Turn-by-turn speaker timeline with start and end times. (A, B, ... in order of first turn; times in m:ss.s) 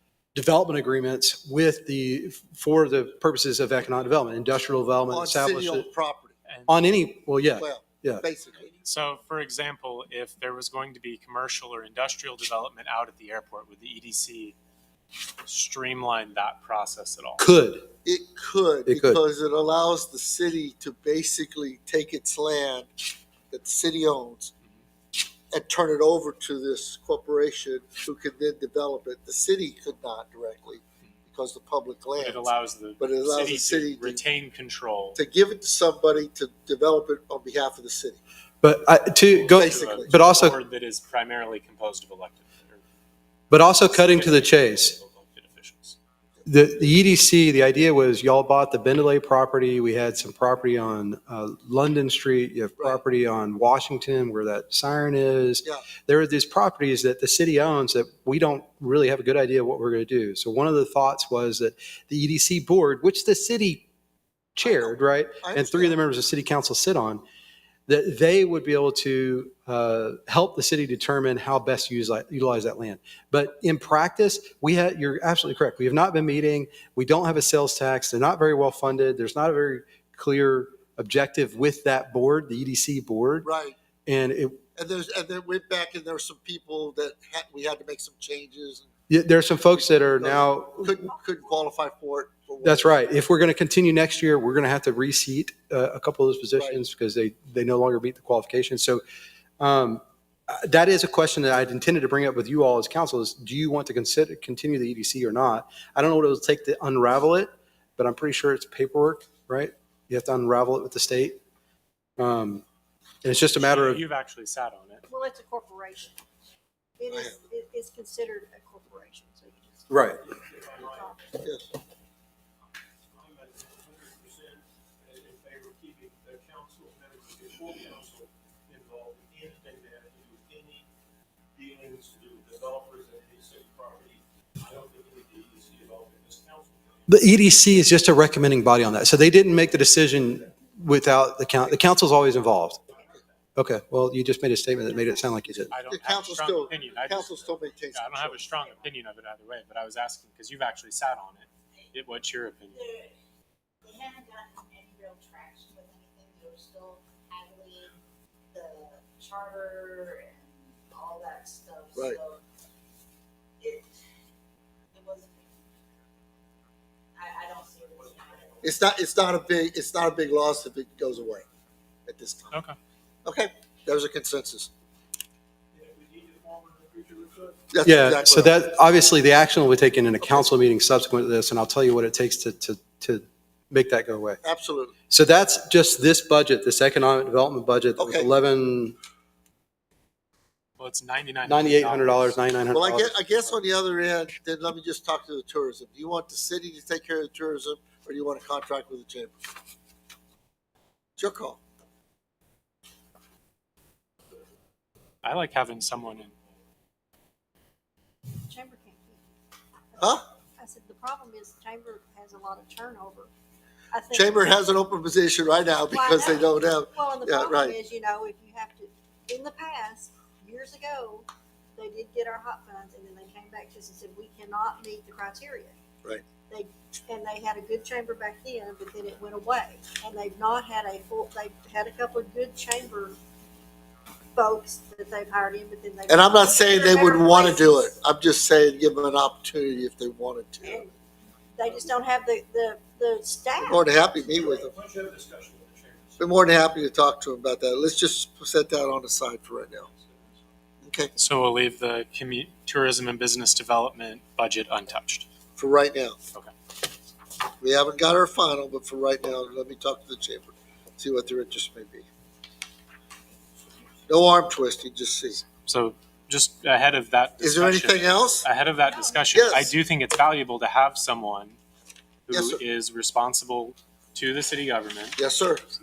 0:00.3-0:05.9 A
0:05.1-0:06.4 B
0:06.5-0:06.8 C
0:06.7-0:08.2 A
0:07.6-0:08.7 B
0:08.8-0:14.6 C
0:15.4-0:17.5 C
0:17.4-0:17.9 A
0:18.0-0:22.9 B
0:18.9-0:19.2 A
0:23.5-0:24.5 B
0:25.5-0:34.2 B
0:32.2-0:35.2 C
0:35.2-0:38.2 B
0:38.6-0:40.6 A
0:39.3-0:42.8 C
0:39.6-0:40.1 B
0:43.5-0:45.0 A
0:43.8-0:46.0 C
0:46.4-1:03.8 A
0:52.8-0:53.0 B
1:04.5-1:07.2 A
1:04.6-1:06.0 B
1:07.9-1:23.5 A
1:23.4-1:23.8 B
1:24.0-1:24.6 A
1:24.8-1:28.9 B
1:29.1-1:31.0 A
1:29.7-1:32.9 B
1:32.6-1:39.0 A
1:36.6-1:36.8 B
1:39.6-1:51.4 A
1:52.2-1:52.6 A
1:53.2-1:54.0 A
1:53.5-1:55.0 C
1:55.1-1:56.2 D
1:57.0-2:00.0 D
1:57.1-1:57.4 B
1:59.9-2:00.2 A
2:00.1-2:01.1 E
2:00.8-2:01.2 D
2:01.4-2:01.7 B
2:03.1-2:10.8 E
2:11.6-2:17.0 E
2:17.1-2:22.8 A
2:23.6-2:25.7 A
2:25.7-2:28.5 B
2:25.7-2:32.9 C
2:32.7-2:33.1 F
2:33.8-2:38.0 F
2:38.5-2:42.4 F
2:41.9-2:42.2 B
2:43.6-2:44.0 F
2:44.9-2:45.6 F
2:47.1-2:48.8 F
2:48.6-2:51.4 B
2:52.0-2:52.6 B
2:52.5-2:52.8 C
2:53.2-2:54.7 B
2:55.7-2:57.6 E
2:57.7-2:58.6 B
2:57.8-3:04.4 A
3:04.4-3:04.9 B
3:05.1-3:09.0 A
3:08.0-3:08.3 B
3:10.8-3:12.4 C
3:11.4-3:13.2 A
3:12.7-3:19.4 B
3:21.2-3:21.6 B
3:25.2-3:26.3 C
3:28.4-3:29.3 D
3:29.9-3:33.3 D
3:30.0-3:30.2 B
3:33.9-3:34.4 D
3:34.1-3:37.8 B
3:35.9-3:45.8 D
3:46.5-3:53.2 D
3:54.3-3:57.9 D
3:56.1-4:00.9 B
4:00.6-4:00.9 D
4:01.5-4:03.9 D
4:03.6-4:04.8 B
4:04.5-4:06.1 E
4:06.2-4:09.9 B
4:10.8-4:11.1 B
4:11.2-4:15.3 C
4:15.6-4:16.2 B
4:17.6-4:22.0 B
4:24.1-4:25.4 B
4:25.6-4:31.6 C
4:27.4-4:28.4 B
4:28.8-4:29.3 D
4:29.3-4:29.7 B
4:32.3-4:35.2 C
4:32.3-4:32.6 B
4:35.2-4:35.6 B